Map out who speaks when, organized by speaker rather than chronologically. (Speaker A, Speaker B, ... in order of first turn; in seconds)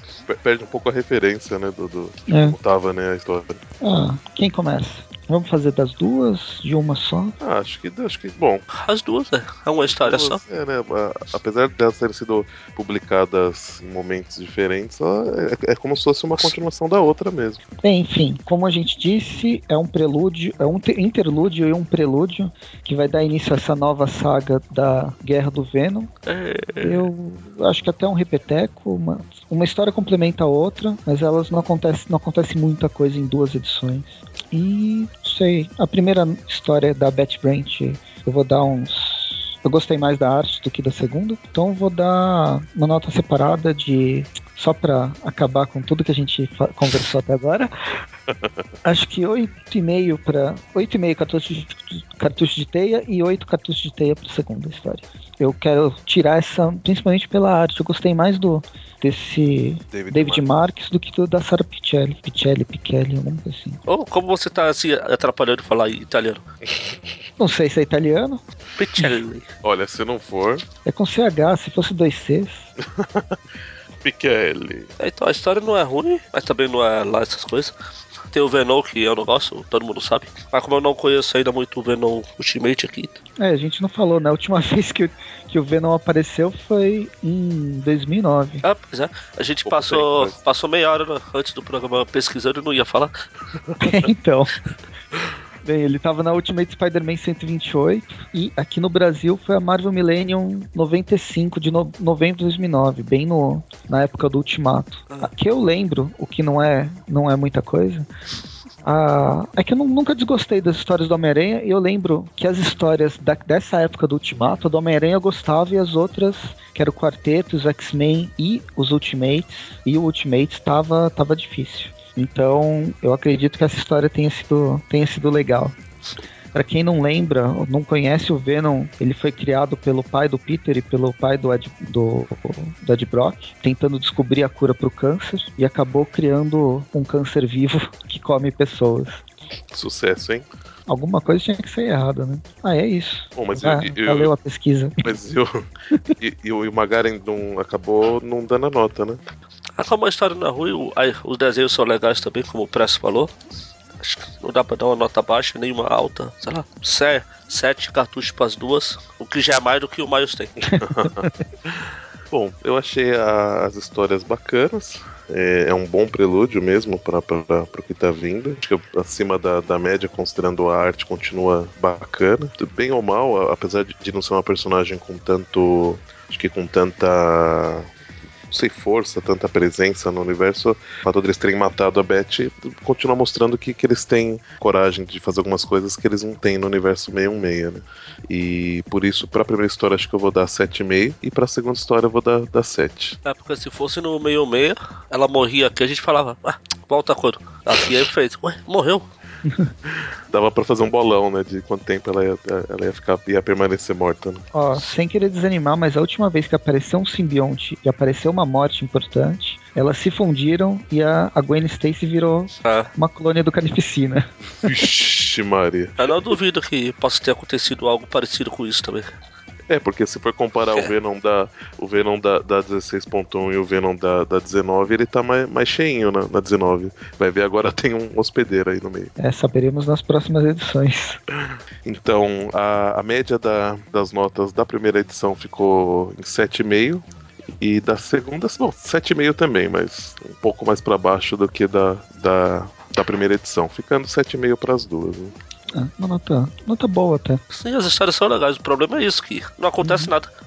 Speaker A: 0.3-3.6, 7.4-8.6, 9.9-17.6, 59.9-60.4, 69.6-70.6, 72.8-73.4, 74.0-74.9, 89.6-90.4, 139.7-140.5, 143.4-144.3, 145.0-145.7, 146.2-149.2, 160.8-177.9, 178.5-193.2, 197.8-198.0, 200.3-204.4, 214.6-216.1, 219.7-229.1, 231.8-237.0, 237.6-245.3
Speaker B: 2.3-2.6, 3.8-7.4, 17.8-26.1, 26.8-47.7, 48.8-63.8, 67.4-68.4, 69.0-69.2, 70.8-72.7, 83.4-88.6, 93.8-94.6, 95.6-108.1, 108.8-125.8, 126.5-139.2, 140.9-145.1, 160.7-161.4, 199.4-199.7, 204.5-214.8, 229.2-231.2, 245.7-247.4, 249.8-250.1
Speaker C: 8.7-10.4, 26.3-27.1, 63.9-66.4, 68.8-69.5, 75.0-77.7, 78.3-83.2, 88.6-93.1, 149.8-153.3, 154.0-160.6, 193.2-199.1, 212.6-212.9, 216.0-219.1, 247.5-250.3